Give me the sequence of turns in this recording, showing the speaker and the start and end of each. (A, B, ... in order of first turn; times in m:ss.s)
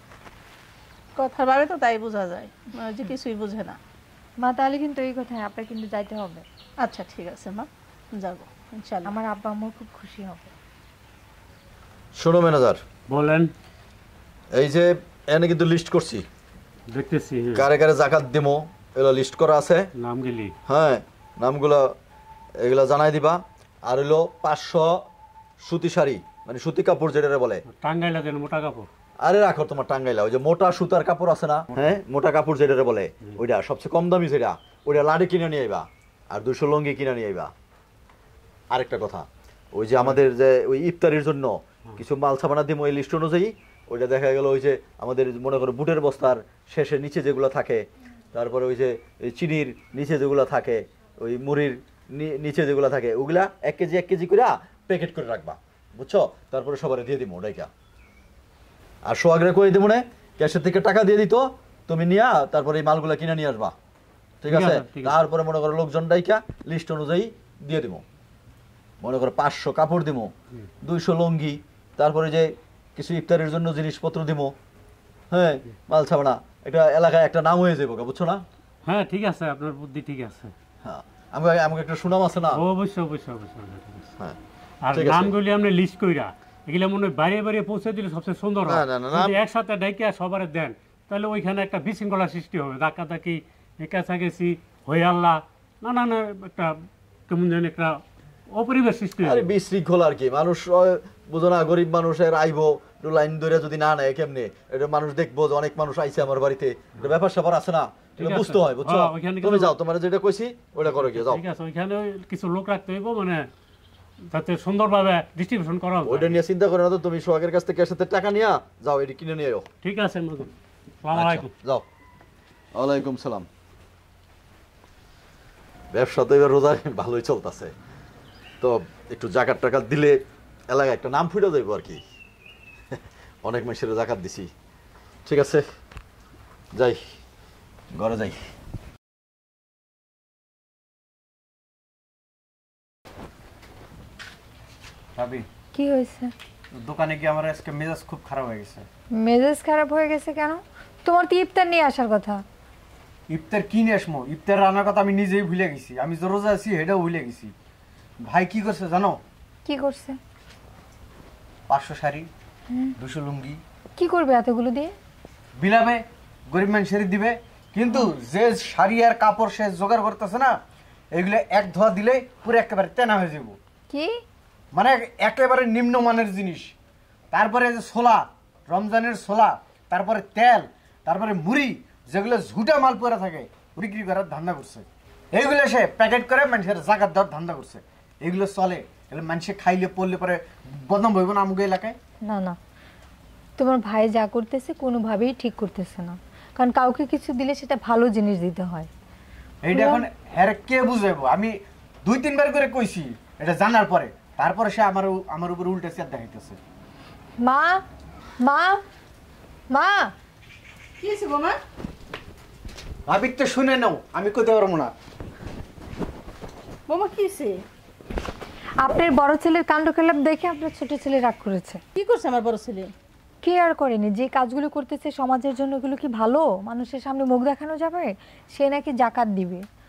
0:01.2-0:03.8 A
0:04.4-0:06.4 B
0:06.8-0:09.1 A
0:09.0-0:10.5 B
0:12.2-0:12.8 C
0:13.1-0:13.5 D
0:14.5-0:16.2 C
0:16.9-0:17.6 D
0:17.5-0:19.9 C
0:20.0-0:20.5 D
0:20.7-0:21.9 C
0:22.6-0:25.0 C
0:25.6-0:27.6 C
0:27.7-0:28.9 D
0:29.2-0:37.5 C
0:38.7-0:57.7 C
0:59.0-1:03.7 C
1:04.4-1:08.0 C
1:04.5-1:05.2 D
1:09.0-1:14.5 C
1:15.3-1:18.4 C
1:18.8-1:20.5 D
1:20.8-1:22.6 C
1:22.5-1:24.1 D
1:24.8-1:36.7 D
1:24.9-1:25.3 C
1:28.6-1:29.4 C
1:37.3-1:38.0 D
1:38.5-1:39.5 D
1:39.2-1:51.4 C
1:48.2-1:49.7 D
1:50.9-1:53.5 D
1:54.3-1:56.4 D
1:56.0-1:59.7 C
1:59.8-2:01.5 D
2:01.1-2:01.8 C
2:02.7-2:03.5 C
2:05.9-2:07.7 C
2:08.6-2:10.2 C
2:10.7-2:12.0 C
2:12.9-2:14.5 C
2:15.2-2:15.6 C
2:16.7-2:17.0 C
2:17.9-2:18.4 C
2:25.2-2:25.4 E
2:25.7-2:26.3 B
2:26.7-2:28.8 E
2:29.2-2:32.4 B
2:33.3-2:37.5 E
2:38.2-2:39.2 E
2:39.6-2:40.2 B
2:41.7-2:42.3 E
2:43.0-2:43.6 E
2:44.0-2:44.9 B
2:45.6-2:50.6 E
2:51.1-2:53.6 E
2:54.7-2:56.7 E
2:57.3-3:12.0 E
3:12.2-3:12.6 B
3:13.6-3:18.9 B
3:19.6-3:26.6 E
3:19.7-3:20.0 B
3:27.4-3:27.8 B
3:28.4-3:28.8 B
3:29.7-3:30.1 B
3:31.0-3:31.6 A
3:33.1-3:34.9 E
3:36.9-3:37.5 A
3:38.8-3:41.8 B
3:42.0-3:42.9 A
3:43.4-3:49.6 B